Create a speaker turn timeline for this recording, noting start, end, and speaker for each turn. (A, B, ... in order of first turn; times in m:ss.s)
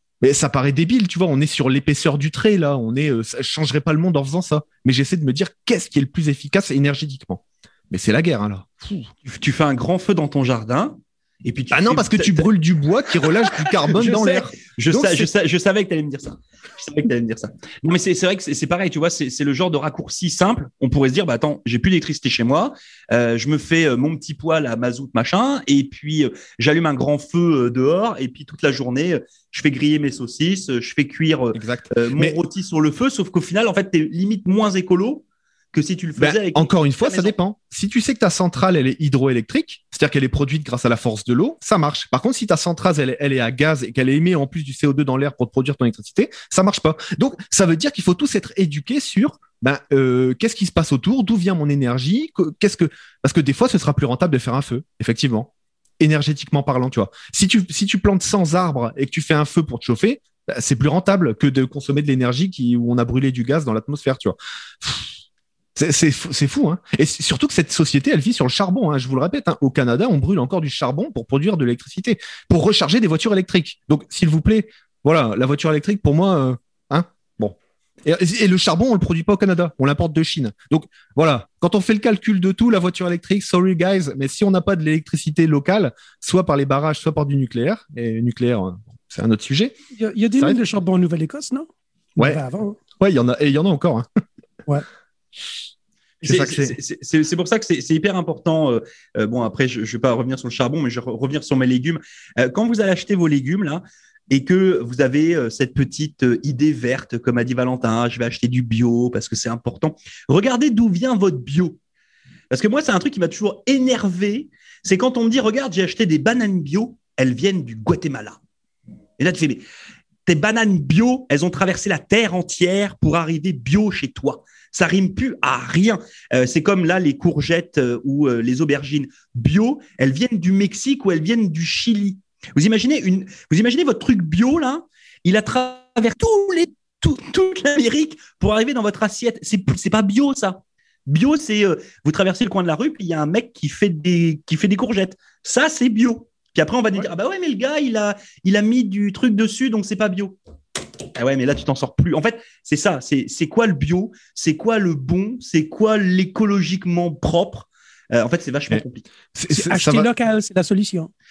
0:00.2-0:09.1 A
0:09.2-0:12.5 B
0:11.7-0:15.3 A
0:13.8-0:37.3 B
0:31.5-0:32.4 A
0:36.2-1:05.1 A
1:05.8-1:29.8 A
1:29.9-1:32.8 C
1:33.0-1:34.0 A
1:36.2-1:51.8 B
1:36.2-1:36.8 A
1:52.5-1:58.4 B
1:59.2-1:59.6 B
2:00.2-2:30.4 B
2:31.2-2:39.1 B
2:39.3-2:40.1 A
2:39.5-2:41.1 C